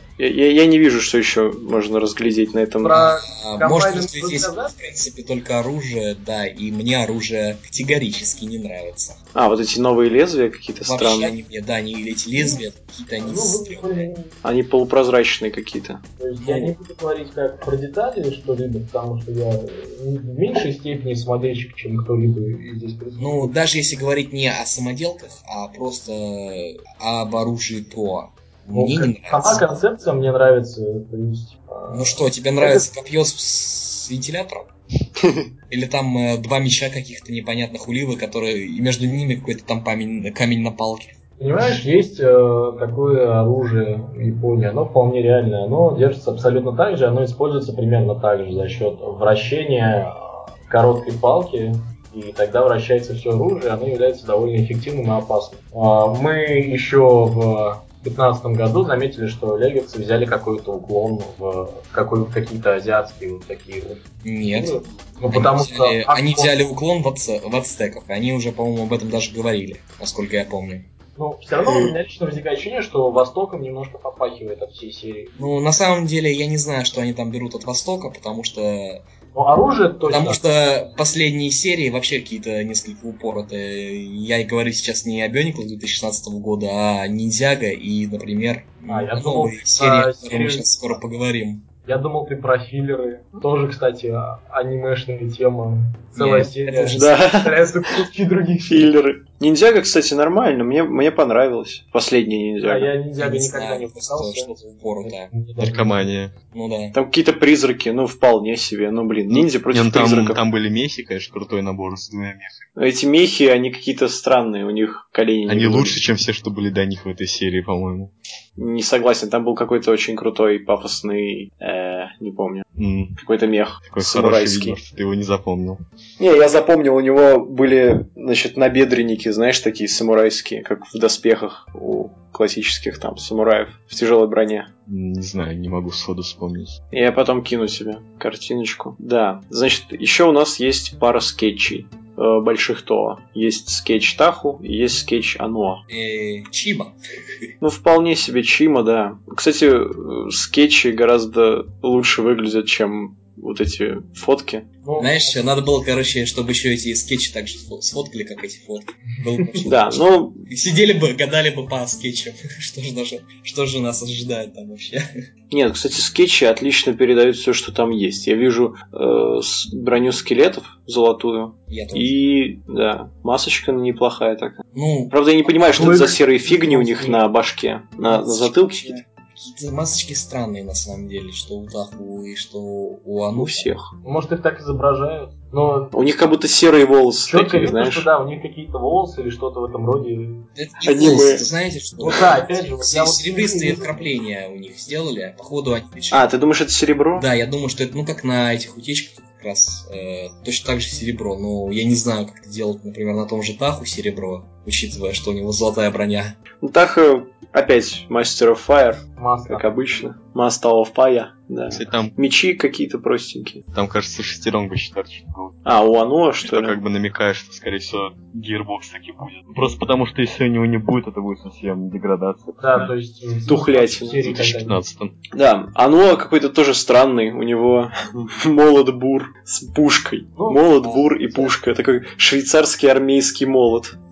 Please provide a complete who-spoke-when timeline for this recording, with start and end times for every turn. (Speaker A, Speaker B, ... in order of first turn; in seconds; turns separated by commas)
Speaker A: 0.2-3.0, Speaker B: 2.8-4.8, Speaker C: 2.9-9.2, Speaker A: 9.3-11.3, Speaker C: 10.8-14.1, Speaker B: 13.2-14.3, Speaker A: 14.4-16.0, Speaker B: 16.2-23.5, Speaker C: 16.4-16.7, Speaker C: 23.2-29.6, Speaker B: 28.7-32.8, Speaker C: 31.9-34.7, Speaker A: 35.2-35.5, Speaker C: 35.7-41.1, Speaker B: 41.4-50.1, Speaker B: 50.7-66.5, Speaker C: 64.2-70.9, Speaker B: 71.2-75.3, Speaker C: 75.4-79.0, Speaker B: 79.3-80.4, Speaker C: 80.0-91.7, Speaker B: 88.9-90.7, Speaker B: 91.8-98.9, Speaker C: 96.1-97.2, Speaker A: 97.0-98.0, Speaker A: 98.7-102.9, Speaker B: 102.6-106.1, Speaker C: 103.2-105.3, Speaker D: 105.6-106.3, Speaker C: 106.5-107.0, Speaker A: 106.9-110.4, Speaker D: 109.3-112.7, Speaker A: 112.8-116.0, Speaker D: 115.5-118.1, Speaker A: 118.6-122.6, Speaker D: 122.8-123.2, Speaker A: 123.2-124.8, Speaker D: 123.9-125.8, Speaker A: 126.2-134.7, Speaker D: 134.9-136.8, Speaker A: 136.9-145.8, Speaker C: 145.9-146.9, Speaker A: 147.6-154.7, Speaker B: 154.8-155.4, Speaker C: 155.0-165.1, Speaker A: 159.6-160.4, Speaker A: 165.5-174.6, Speaker C: 171.7-172.1, Speaker C: 174.7-176.1, Speaker A: 175.1-179.0, Speaker B: 175.7-177.2, Speaker C: 178.1-183.8, Speaker A: 183.3-183.9, Speaker B: 184.0-185.9, Speaker A: 185.9-188.1, Speaker B: 187.3-190.5, Speaker C: 190.5-196.2, Speaker A: 190.8-191.5, Speaker B: 192.0-194.1, Speaker A: 196.1-197.2, Speaker C: 197.2-206.4, Speaker A: 206.6-213.6, Speaker B: 209.2-209.7, Speaker D: 211.7-212.1, Speaker D: 213.7-215.6, Speaker A: 215.6-216.8, Speaker D: 216.4-222.9, Speaker B: 222.6-224.8, Speaker A: 223.5-224.2, Speaker D: 224.1-225.2, Speaker A: 225.3-233.9, Speaker B: 230.4-231.5